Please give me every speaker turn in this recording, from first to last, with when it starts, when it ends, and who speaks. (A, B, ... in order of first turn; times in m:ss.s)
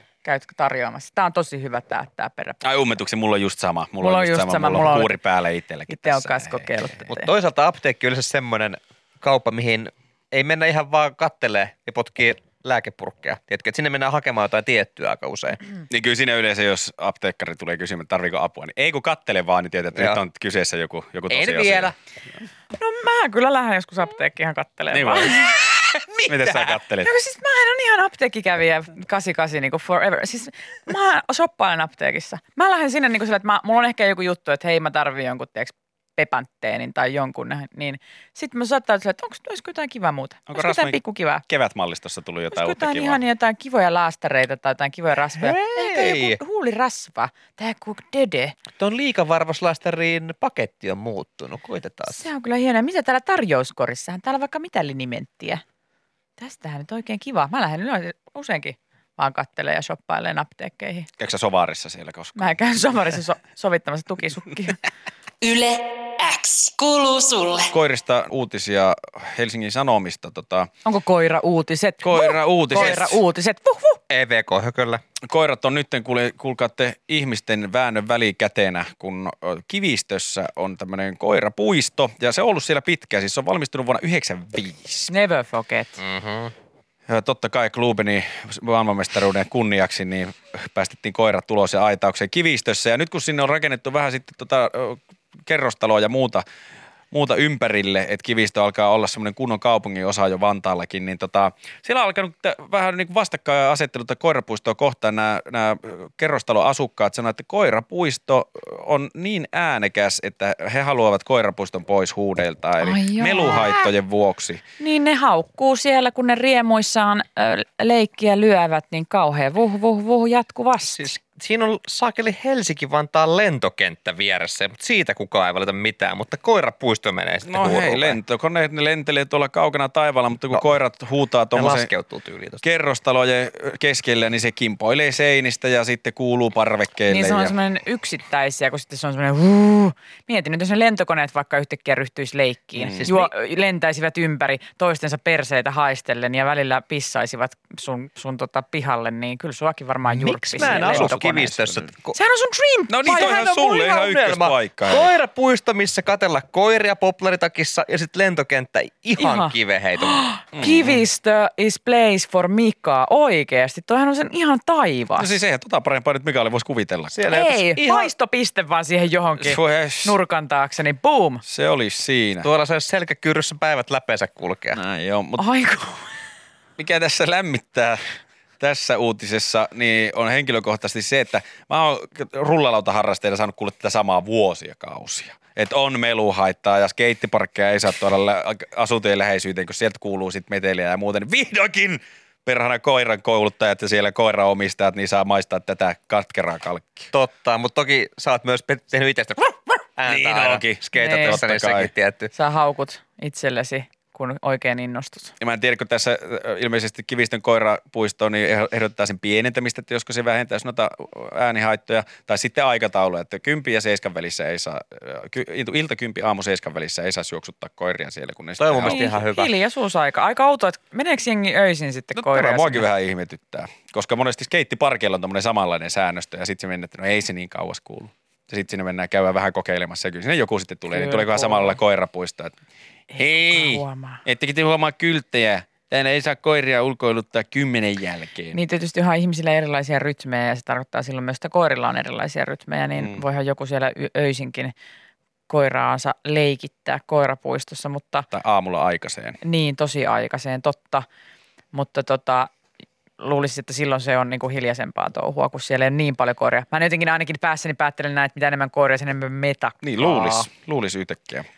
0:00.2-0:02.6 A
0:02.6-0:06.9 B
0:04.0-0:05.2 A
0:05.9-0:07.3 A
0:07.0-0:15.6 C
0:15.9-0:21.9 B
0:19.9-0:20.2 C
0:21.3-0:21.9 C
0:22.8-0:25.5 A
0:24.9-0:25.5 B
0:25.5-0:26.8 C
0:26.3-0:27.1 B
0:27.0-0:41.4 A
0:40.5-0:43.2 B
0:42.5-0:48.5 A
0:45.4-0:46.4 C
0:48.8-0:52.2 C
0:52.1-0:55.6 A
0:56.4-1:01.1 A
1:01.2-1:02.4 B
1:02.4-1:04.8 A
1:05.4-1:07.7 D
1:07.7-1:10.7 B
1:10.8-1:14.0 A
1:12.0-1:13.2 B
1:12.8-1:13.0 C
1:14.1-1:15.0 C
1:15.2-1:25.1 B
1:25.1-1:26.0 A
1:26.0-1:26.5 C
1:27.1-1:36.4 B
1:37.1-1:54.6 B
1:52.8-1:53.9 A
1:54.8-2:01.1 A
2:00.9-2:08.2 C
2:07.5-2:11.9 B
2:11.5-2:12.6 C
2:12.6-2:17.5 B
2:17.1-2:31.5 A
2:22.8-2:23.1 B
2:22.9-2:23.3 C
2:30.1-2:32.2 C
2:30.6-2:31.9 B
2:32.1-2:33.9 A
2:32.9-2:35.1 B
2:33.1-2:40.2 C
2:39.2-2:45.3 A
2:40.5-2:41.0 B
2:45.2-2:47.2 B
2:47.1-2:48.1 C
2:47.3-2:51.4 A
2:49.4-2:50.2 B
2:51.4-2:52.5 B
2:52.4-2:54.8 C
2:54.7-2:55.4 B
2:55.4-2:56.1 A
2:56.8-2:58.0 B
2:58.6-3:17.1 B
3:17.1-3:22.3 C
3:20.0-3:21.9 B
3:20.9-3:21.4 A
3:22.3-3:25.3 A
3:25.4-3:39.0 B
3:38.6-3:39.5 C
3:38.8-3:42.8 A
3:42.2-3:52.6 B
3:50.9-3:51.8 A
3:53.1-3:54.2 A
3:53.2-3:58.6 B
3:58.5-4:04.7 A
4:03.0-4:03.2 B
4:05.5-4:08.3 A
4:08.3-4:09.4 B
4:09.4-4:11.0 A
4:11.7-4:12.5 A
4:13.2-4:20.5 A
4:19.8-4:21.4 B